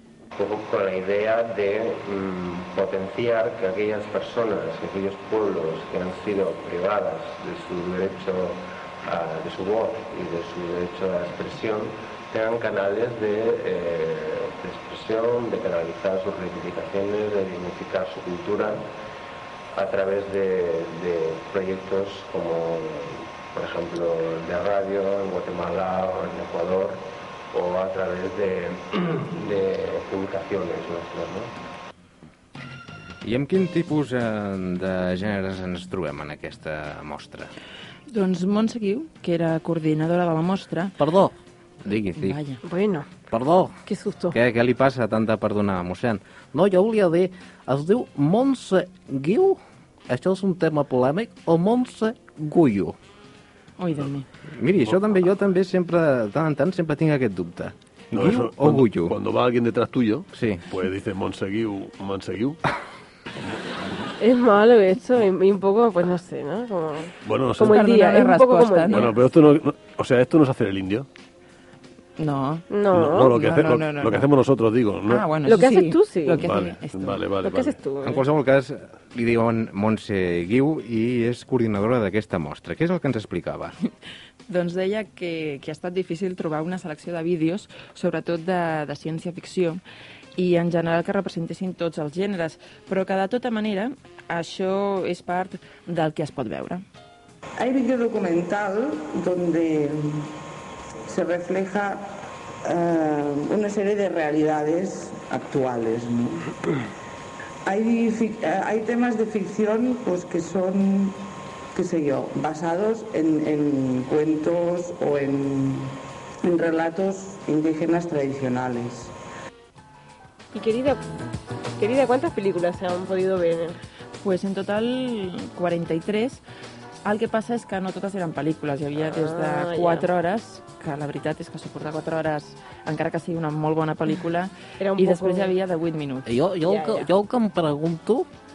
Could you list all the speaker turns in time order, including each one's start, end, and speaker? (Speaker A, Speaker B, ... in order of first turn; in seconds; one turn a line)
Speaker A: 0.3-18.8
Speaker A: 19.7-31.5
Speaker B: 33.2-37.5
Speaker C: 38.1-41.0
Speaker D: 41.0-41.3
Speaker B: 41.9-42.3
Speaker C: 42.1-42.6
Speaker E: 42.6-43.1
Speaker D: 43.3-43.7
Speaker E: 43.9-44.4
Speaker B: 44.3-46.2
Speaker D: 46.5-52.9
Speaker C: 53.8-54.2
Speaker B: 54.5-59.1
Speaker F: 58.1-62.6
Speaker B: 60.3-60.6
Speaker E: 64.2-69.2
Speaker F: 67.2-67.8
Speaker C: 67.6-69.1
Speaker F: 68.9-71.0
Speaker C: 72.2-74.3
Speaker E: 72.7-73.3
Speaker F: 72.9-75.2
Speaker C: 75.1-77.2
Speaker E: 75.4-76.4
Speaker F: 76.4-77.7
Speaker E: 77.4-78.2
Speaker B: 78.0-83.7
Speaker C: 84.5-89.8
Speaker C: 90.3-96.8
Speaker G: 97.6-100.3
Speaker G: 101.0-106.5
Speaker G: 107.6-111.2
Speaker G: 111.7-119.1
Speaker E: 120.5-121.0
Speaker E: 121.8-123.8
Speaker C: 124.2-126.4
Speaker C: 127.0-136.3
Speaker E: 129.0-130.1
Speaker E: 134.8-135.5
Speaker D: 136.2-138.3
Speaker E: 136.6-137.1